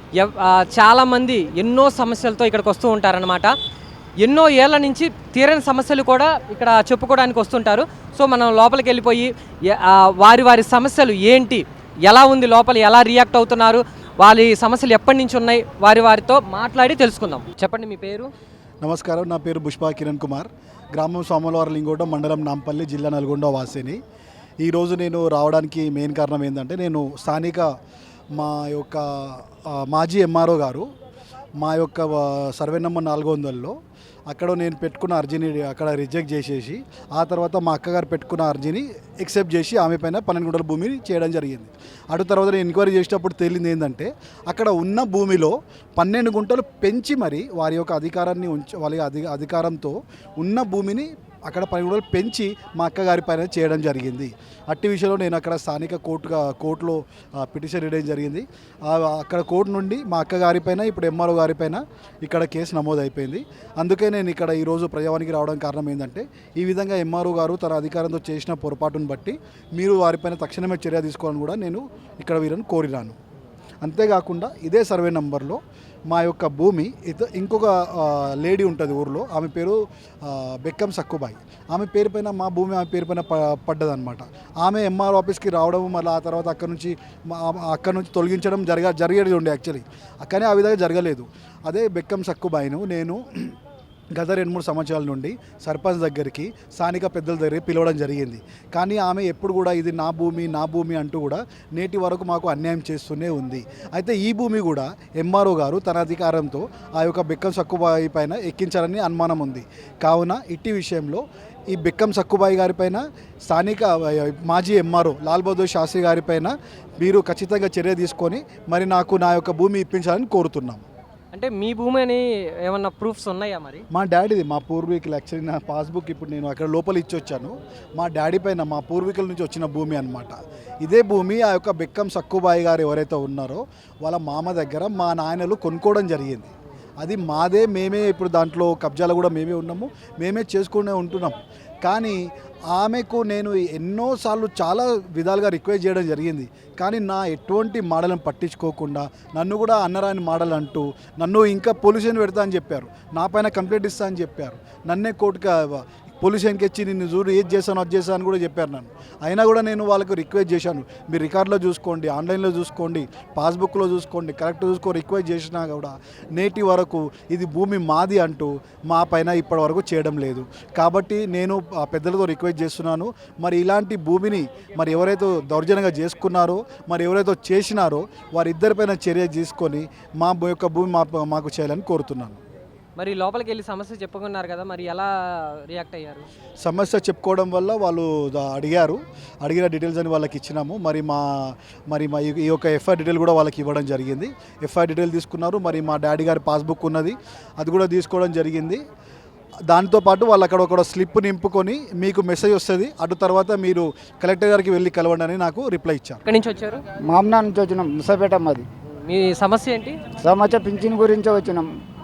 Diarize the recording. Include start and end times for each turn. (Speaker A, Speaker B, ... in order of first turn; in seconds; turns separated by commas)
Speaker A: 0.1-3.5, Speaker A: 4.2-18.3, Speaker B: 18.8-24.0, Speaker B: 24.6-27.7, Speaker B: 28.4-30.9, Speaker B: 31.6-33.8, Speaker B: 34.3-73.2, Speaker B: 73.8-93.5, Speaker B: 94.2-120.8, Speaker A: 121.3-123.8, Speaker B: 123.9-142.2, Speaker B: 142.7-182.4, Speaker A: 183.0-186.3, Speaker B: 186.6-198.8, Speaker B: 199.7-206.2, Speaker A: 206.2-206.8, Speaker C: 207.1-208.7, Speaker A: 209.0-210.0, Speaker C: 210.2-211.7